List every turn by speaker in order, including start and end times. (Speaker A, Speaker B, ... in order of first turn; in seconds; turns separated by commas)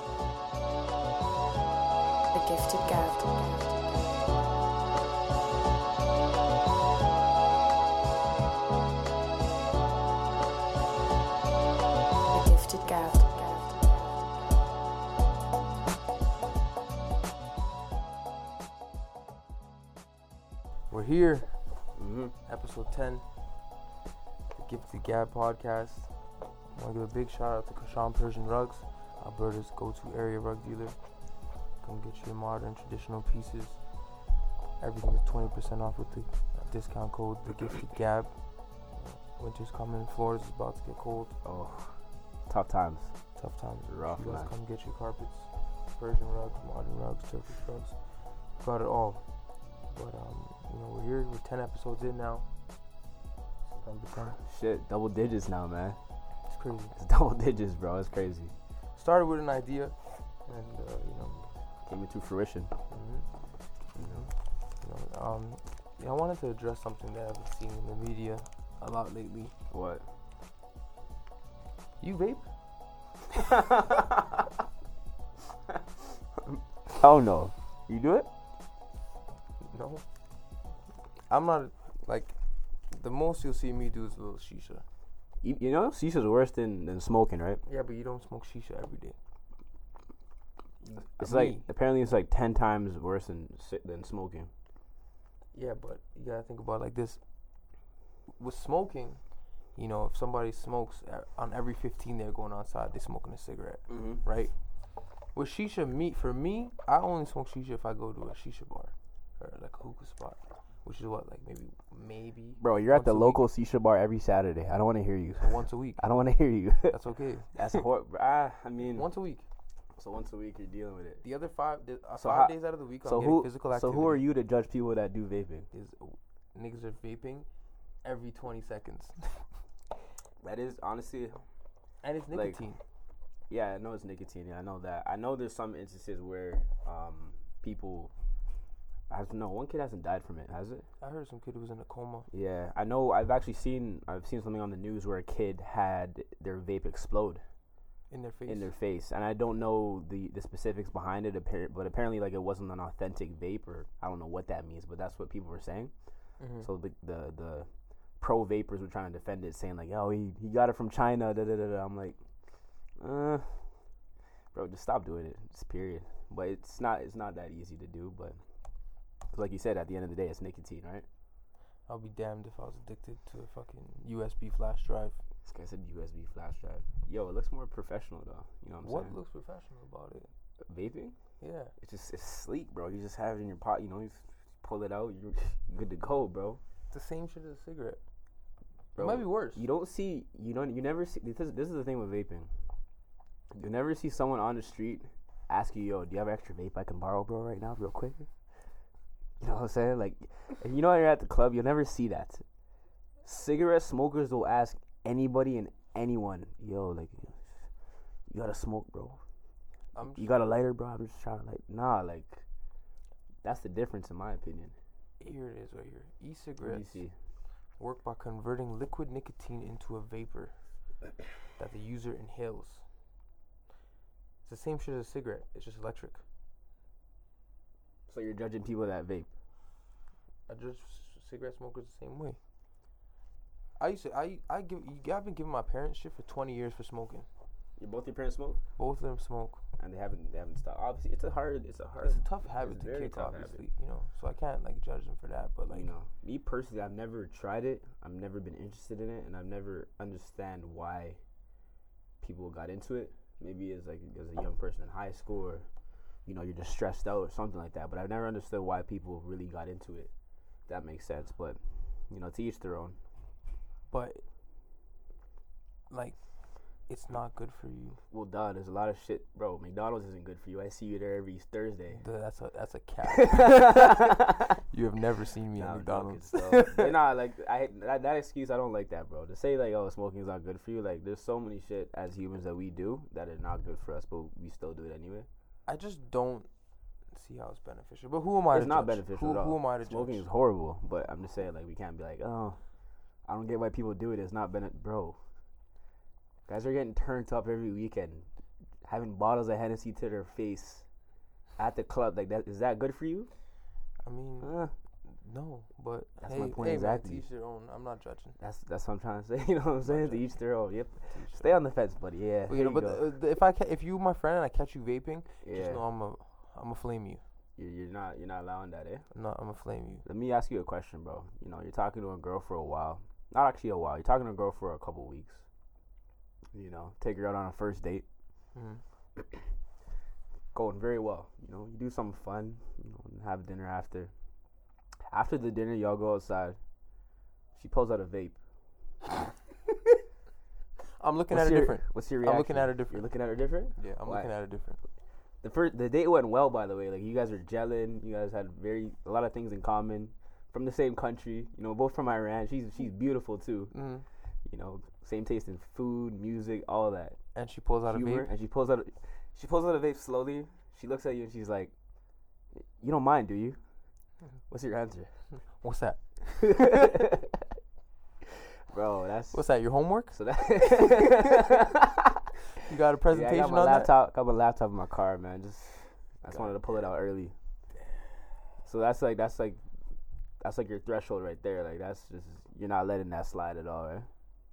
Speaker A: 2.3-4.1, Speaker A: 12.3-14.7, Speaker B: 20.9-21.6, Speaker C: 22.0-22.4, Speaker B: 22.4-23.3, Speaker B: 24.6-26.1, Speaker B: 26.7-31.0, Speaker B: 31.8-33.8, Speaker B: 34.8-38.3, Speaker B: 38.9-41.4, Speaker C: 41.5-43.2, Speaker B: 43.4-48.0, Speaker C: 43.9-44.5, Speaker B: 48.6-49.2, Speaker B: 49.9-52.5, Speaker B: 53.7-54.4, Speaker C: 54.4-56.0, Speaker B: 56.5-57.0, Speaker C: 57.0-58.5, Speaker B: 59.0-61.5, Speaker C: 61.9-62.7, Speaker B: 62.9-63.3, Speaker B: 63.9-69.5, Speaker C: 64.0-64.3, Speaker C: 69.7-70.0, Speaker B: 72.0-72.5, Speaker C: 73.3-74.4, Speaker C: 76.5-78.3, Speaker B: 79.6-80.0, Speaker B: 81.3-82.4, Speaker B: 82.9-84.8, Speaker C: 85.4-87.6, Speaker B: 87.7-89.2, Speaker B: 90.8-91.7, Speaker C: 91.2-94.5, Speaker B: 95.5-97.2, Speaker B: 98.4-99.2, Speaker B: 99.8-104.5, Speaker C: 103.9-104.2, Speaker B: 105.3-113.4, Speaker C: 112.6-117.0, Speaker B: 115.4-116.0, Speaker B: 116.9-117.8, Speaker C: 117.5-119.1, Speaker B: 119.0-119.5, Speaker C: 120.0-121.2, Speaker B: 121.2-124.3, Speaker C: 122.2-125.7, Speaker B: 125.7-127.5, Speaker B: 128.0-129.4, Speaker C: 130.4-131.4, Speaker B: 132.0-132.8, Speaker C: 132.3-132.6, Speaker C: 133.5-138.1, Speaker C: 139.1-140.9, Speaker B: 141.0-142.3, Speaker C: 142.3-147.4, Speaker B: 148.1-148.7, Speaker C: 148.5-155.9, Speaker B: 156.4-156.7, Speaker C: 156.6-157.7, Speaker C: 158.2-162.2, Speaker C: 163.0-163.7, Speaker C: 164.5-168.4, Speaker C: 169.3-171.1, Speaker B: 171.9-175.2, Speaker C: 175.4-179.2, Speaker B: 178.8-180.3, Speaker C: 180.7-181.2, Speaker B: 181.4-181.7, Speaker C: 181.8-186.6, Speaker B: 186.9-188.0, Speaker C: 188.9-192.5, Speaker B: 189.0-189.6, Speaker C: 193.5-198.3, Speaker C: 199.4-202.4, Speaker C: 203.2-207.6, Speaker C: 208.3-209.2, Speaker B: 209.9-210.3, Speaker C: 210.2-212.4, Speaker C: 213.4-214.8, Speaker B: 215.2-217.0, Speaker C: 216.6-217.1, Speaker B: 217.8-220.6, Speaker B: 221.6-222.8, Speaker B: 224.4-226.2, Speaker C: 228.1-229.3, Speaker B: 230.5-232.4, Speaker B: 233.8-237.3, Speaker C: 237.8-238.6, Speaker B: 238.8-239.6, Speaker C: 239.8-243.6, Speaker B: 242.0-245.9, Speaker C: 245.7-251.2, Speaker C: 252.2-255.7, Speaker C: 256.3-260.1, Speaker C: 260.7-263.0, Speaker B: 263.9-264.2, Speaker B: 265.9-268.0, Speaker C: 268.1-272.0, Speaker B: 271.9-274.2, Speaker C: 273.2-274.5, Speaker B: 274.7-276.9, Speaker C: 275.6-285.3, Speaker B: 285.7-286.5, Speaker B: 287.1-290.3, Speaker C: 288.5-292.6, Speaker C: 293.3-295.2, Speaker C: 296.5-298.3, Speaker C: 298.8-300.9, Speaker C: 301.6-303.3, Speaker B: 304.0-304.5, Speaker C: 304.4-304.7, Speaker B: 305.1-308.4, Speaker C: 306.2-307.2, Speaker C: 308.4-313.0, Speaker B: 309.9-310.3, Speaker B: 311.1-311.6, Speaker B: 312.5-317.2, Speaker C: 315.4-315.8, Speaker C: 317.6-319.1, Speaker B: 319.1-320.1, Speaker C: 320.1-325.4, Speaker C: 326.5-328.1, Speaker B: 328.6-328.8, Speaker C: 330.5-334.1, Speaker C: 335.1-336.6, Speaker C: 337.6-338.4, Speaker B: 341.0-343.1, Speaker C: 341.3-344.3, Speaker B: 343.8-344.8, Speaker C: 345.4-353.7, Speaker B: 353.7-354.1, Speaker C: 354.4-357.2, Speaker B: 357.4-358.3, Speaker C: 357.9-361.7, Speaker C: 362.8-363.6, Speaker C: 364.5-365.1, Speaker B: 365.6-366.8, Speaker C: 366.4-367.4, Speaker C: 368.7-369.4, Speaker B: 369.3-371.3, Speaker C: 370.1-372.2, Speaker B: 372.6-373.9, Speaker C: 373.1-377.4, Speaker C: 378.6-379.6, Speaker C: 380.4-384.1